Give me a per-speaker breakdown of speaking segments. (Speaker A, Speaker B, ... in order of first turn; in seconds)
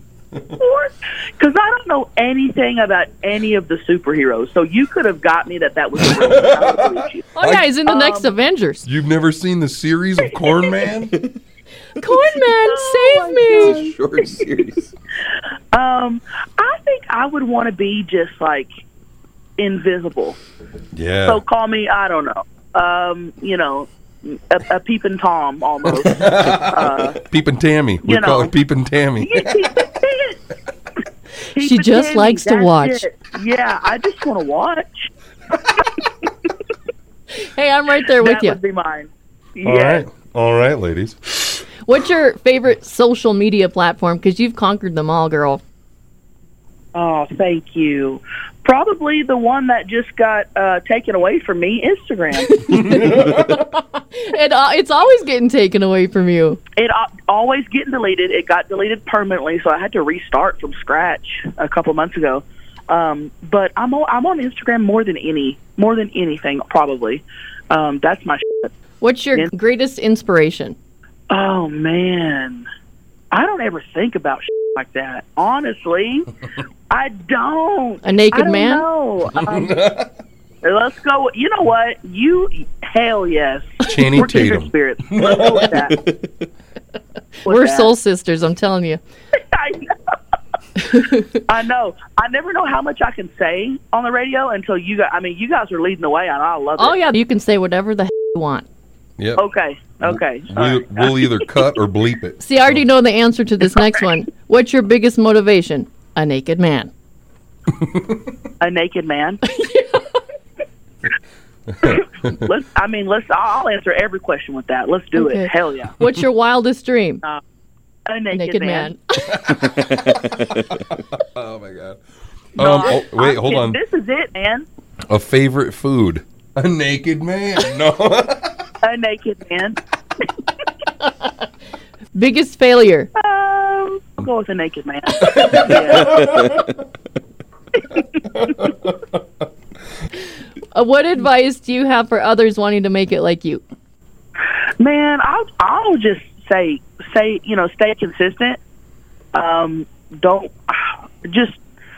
Speaker A: 0.6-7.3, 7.9-8.3, 12.5-14.0, 15.7-18.7, 19.6-20.4, 21.3-27.2, 28.0-28.5, 29.2-30.4, 31.6-35.1, 38.2-40.0, 47.0-52.6, 56.8-68.7, 71.3-72.7, 73.3-76.3, 76.9-79.8, 80.6-86.0, 87.5-87.9, 89.5-90.2, 91.5-97.0, 99.4-101.5, 108.6-109.4, 111.8-115.9, 118.1-118.9, 122.6-124.7, 128.8-129.8, 133.2-136.3, 137.9-138.5, 144.8-148.6, 149.3-151.6
Speaker B: 6.0-6.6, 7.4-7.7, 8.9-11.2, 20.9-21.4, 26.1-29.6, 39.6-41.6, 53.0-53.4, 79.4-80.1, 83.8-85.9, 100.0-102.8, 107.8-108.2, 111.7-112.5, 119.2-122.0, 122.6-123.8, 125.1-128.6, 135.2-136.6
Speaker C: 7.4-8.8, 12.0-13.8, 31.6-33.0, 37.4-38.6, 41.9-45.6, 52.4-56.6, 69.0-70.8, 78.0-78.9, 87.5-89.0, 90.9-91.2, 96.8-98.7, 102.4-106.9, 109.5-110.2, 115.2-117.2, 118.3-119.0, 132.2-133.1, 140.7-143.6
Speaker D: 13.4-14.9, 119.7-120.7, 136.2-136.6